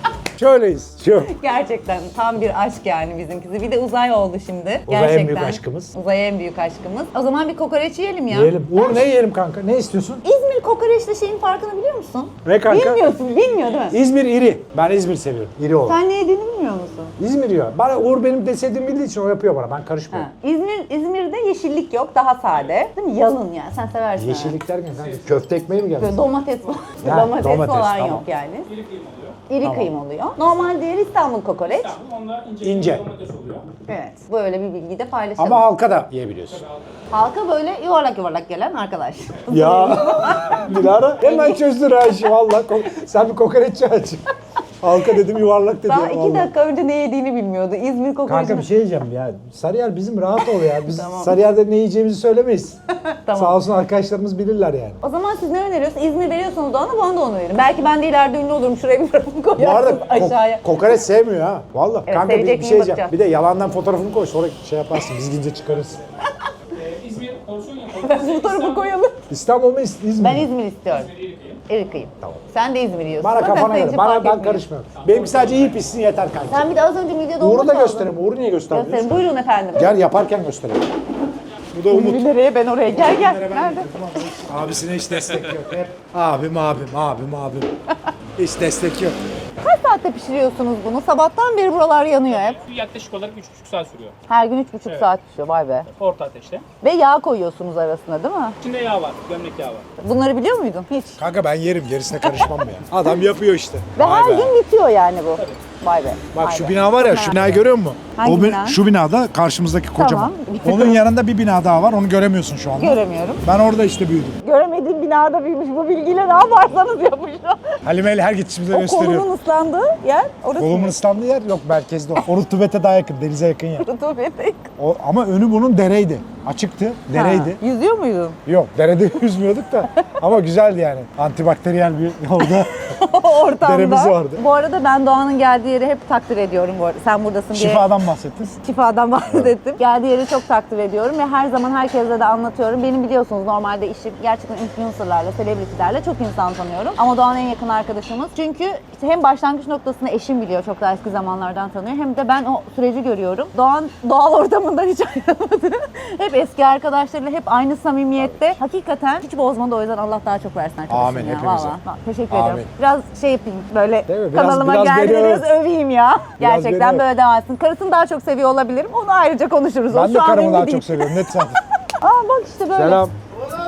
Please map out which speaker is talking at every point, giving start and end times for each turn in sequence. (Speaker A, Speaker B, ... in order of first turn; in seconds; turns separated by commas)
Speaker A: 0.3-1.3, Speaker B: 1.3-8.9, Speaker A: 4.9-5.9, Speaker A: 8.3-10.2, Speaker B: 10.2-14.0, Speaker A: 12.4-13.1, Speaker A: 13.9-16.0, Speaker B: 15.8-17.1, Speaker A: 17.2-20.3, Speaker B: 20.1-24.6, Speaker A: 24.2-26.2, Speaker C: 25.0-25.5, Speaker B: 26.0-28.7, Speaker A: 27.0-28.2, Speaker C: 28.6-29.4, Speaker B: 29.5-31.9, Speaker A: 29.6-29.9, Speaker C: 31.6-33.6, Speaker A: 32.6-33.0, Speaker B: 33.9-35.6, Speaker A: 35.4-36.6, Speaker C: 36.5-36.9, Speaker B: 37.1-41.6, Speaker A: 39.5-44.2, Speaker A: 44.8-46.5, Speaker B: 45.9-48.7, Speaker A: 48.3-52.8, Speaker B: 50.8-51.3, Speaker B: 53.0-53.6, Speaker A: 53.3-55.0, Speaker B: 55.0-60.6, Speaker A: 59.6-66.0, Speaker B: 62.1-63.1, Speaker C: 66.7-69.0, Speaker B: 68.0-69.2, Speaker A: 69.3-70.5, Speaker B: 70.2-71.1, Speaker C: 70.9-71.6, Speaker B: 71.7-74.6, Speaker A: 73.2-76.7, Speaker C: 75.0-75.9, Speaker B: 76.5-78.1, Speaker A: 77.4-79.2, Speaker B: 78.7-80.0, Speaker A: 79.8-80.9, Speaker A: 81.7-82.3, Speaker B: 81.9-83.9, Speaker A: 82.9-87.7, Speaker A: 88.4-89.2, Speaker B: 89.6-92.6, Speaker C: 92.3-94.2, Speaker B: 94.3-95.9, Speaker C: 95.9-96.6, Speaker B: 96.8-98.5, Speaker C: 98.6-99.8, Speaker B: 100.0-101.2, Speaker A: 101.2-104.5, Speaker B: 104.0-107.6, Speaker C: 105.3-105.6, Speaker A: 106.3-114.4, Speaker B: 108.1-108.8, Speaker B: 110.0-111.0, Speaker B: 112.8-113.4, Speaker B: 114.4-117.8, Speaker A: 117.8-119.3, Speaker B: 118.7-121.0, Speaker A: 120.6-123.9, Speaker B: 123.8-124.7, Speaker A: 124.8-127.6, Speaker B: 127.1-128.4, Speaker A: 128.4-132.7, Speaker B: 132.7-137.8, Speaker A: 133.6-134.4, Speaker A: 137.5-138.6, Speaker B: 138.4-171.2, Speaker A: 160.9-161.8, Speaker A: 162.3-162.7, Speaker A: 164.1-165.5, Speaker A: 166.4-167.1, Speaker A: 169.9-171.6, Speaker B: 172.0-173.0, Speaker A: 172.7-173.1